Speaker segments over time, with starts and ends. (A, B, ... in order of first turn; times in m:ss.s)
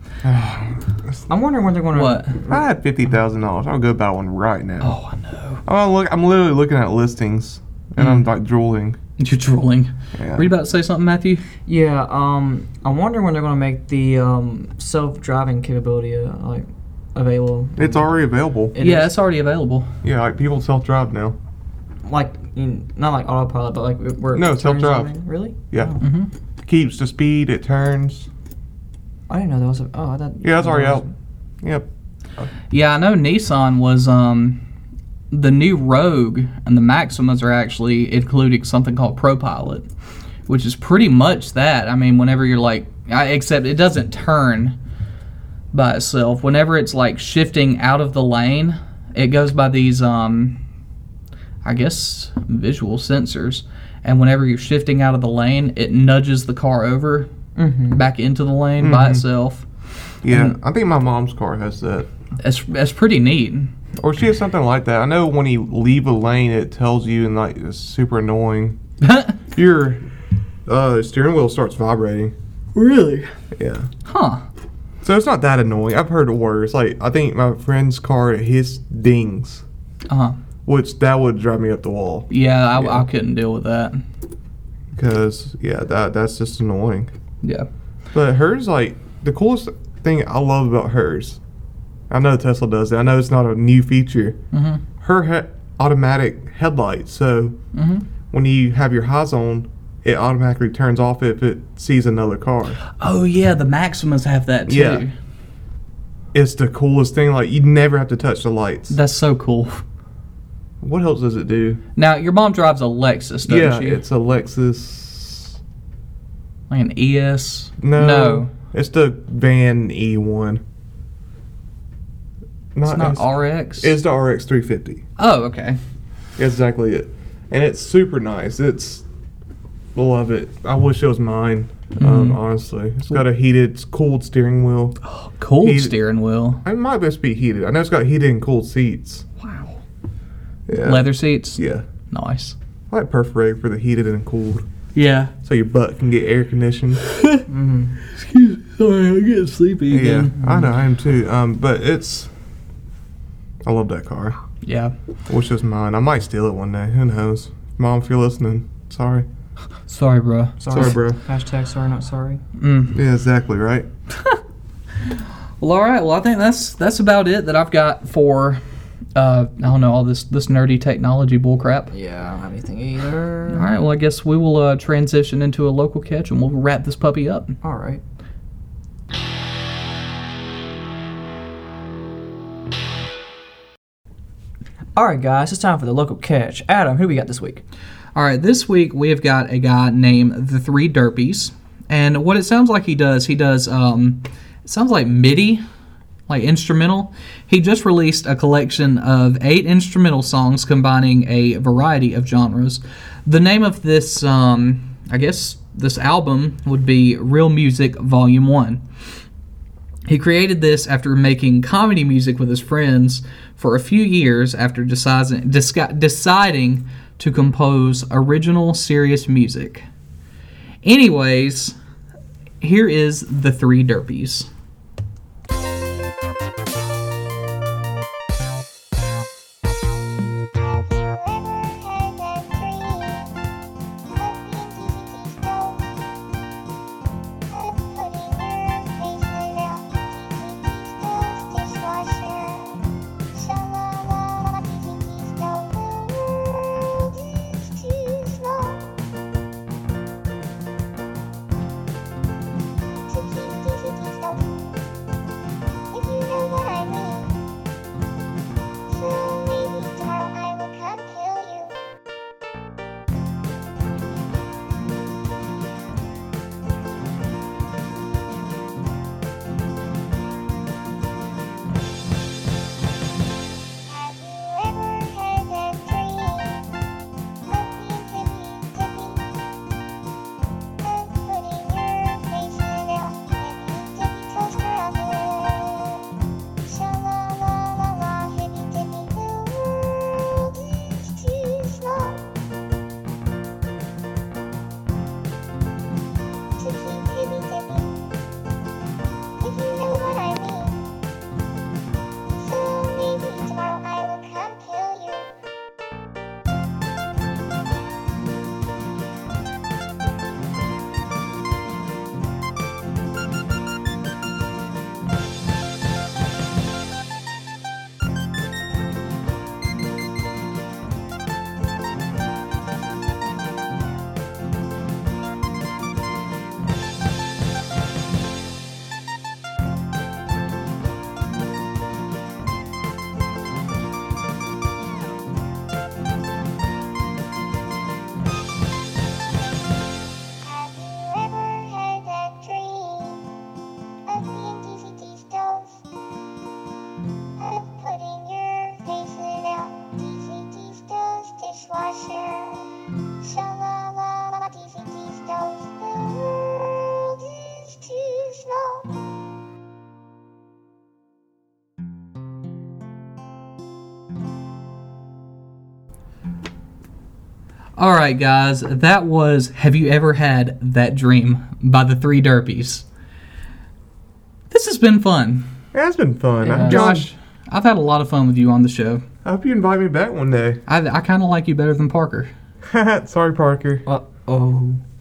0:00.2-0:01.2 A
0:01.3-0:02.6 B
0:01.9-0:02.4 C
0:02.5-0:05.0 A
0:04.8-0:05.6 C
0:05.6-0:09.0 A
0:09.2-0:11.4 C
0:10.2-0:10.5 A
0:11.6-0:18.1 B
0:17.8-0:18.8 A
0:18.7-0:19.1 B
0:18.8-0:19.9 C
0:20.0-0:21.3 A
0:22.0-0:26.0 B
0:24.3-0:25.1 A
0:25.7-0:26.0 A
0:26.0-0:26.3 C
0:26.6-0:28.3 A
0:29.3-0:31.1 B
0:30.4-0:31.0 A
0:31.6-0:31.9 A
0:32.7-0:34.6 C
0:35.3-0:39.9 C
0:40.5-0:44.8 C
0:45.7-0:50.6 C
0:51.6-0:57.3 C
0:57.6-0:58.0 B
0:57.9-0:59.6 C
0:58.8-0:59.2 A
1:00.2-1:02.1 A
1:00.3-1:00.5 C
1:02.4-1:03.7 C
1:04.0-1:08.8 A
1:09.0-1:09.4 C
1:09.5-1:10.0 A
1:10.6-1:12.3 A
1:12.8-1:13.3 C
1:13.5-1:13.9 A
1:14.0-1:14.4 C
1:15.0-1:19.6 A
1:20.1-1:20.4 C
1:20.6-1:23.0 A
1:22.3-1:24.0 C
1:24.9-1:27.1 A
1:27.4-1:27.7 C
1:28.1-1:31.4 A
1:32.1-1:34.4 A
1:34.5-1:34.8 C
1:35.0-1:37.6 A
1:37.7-1:38.0 C
1:38.3-1:42.8 A
1:42.9-1:45.1 C
1:44.7-1:45.0 A
1:46.3-1:49.0 A
1:48.9-1:49.8 C
1:50.8-1:51.8 A
1:52.0-1:54.0 C
1:53.5-1:55.6 A
1:56.7-1:58.5 C
1:57.8-2:00.6 A
2:02.7-2:05.0 A
2:02.8-2:04.0 C
2:05.2-2:05.8 C
2:06.4-2:09.0 A
2:09.9-2:15.0 A
2:12.0-2:12.4 C
2:15.0-2:16.6 C
2:15.6-2:16.0 A
2:16.6-2:19.2 A
2:19.4-2:19.8 C
2:20.7-2:21.8 A
2:20.8-2:22.5 C
2:22.9-2:24.7 A
2:24.9-2:25.3 C
2:25.4-2:27.0 A
2:27.1-2:27.4 C
2:27.5-2:27.9 B
2:28.0-2:30.3 C
2:29.9-2:32.3 A
2:30.4-2:30.7 B
2:33.6-2:34.4 A
2:34.6-2:34.9 C
2:35.3-2:39.2 A
2:39.9-2:40.7 C
2:40.6-2:42.4 B
2:40.7-2:41.2 A
2:42.6-2:43.0 C
2:42.9-2:43.9 A
2:45.1-2:48.6 C
2:49.1-2:51.9 C
2:51.9-2:53.7 B
2:53.5-2:57.5 C
2:57.6-2:58.0 B
3:05.0-3:07.6 B
3:08.1-3:15.6 C
3:16.3-3:28.8 C
3:30.1-3:39.8 C
3:40.8-3:41.7 C
3:42.6-3:44.5 C
3:50.5-3:53.4 D
3:54.1-3:56.0 D
3:57.5-4:08.9 D
4:13.1-4:14.7 D
4:15.9-4:17.4 D
4:18.9-4:21.8 D
4:33.8-4:36.8 D
4:37.4-4:39.4 D
4:40.8-4:46.1 D
4:46.6-4:52.3 D
4:56.6-4:58.0 D
4:59.4-5:00.9 D
5:02.3-5:05.3 D
5:40.4-5:43.3 D
5:44.1-5:45.8 D
5:47.4-5:59.0 D
6:07.8-6:12.8 C
6:14.5-6:15.5 C
6:15.7-6:17.1 A
6:16.4-6:17.0 B
6:16.6-6:19.0 C
6:19.2-6:20.6 A
6:20.7-6:22.3 C
6:22.6-6:23.8 A
6:23.8-6:24.8 B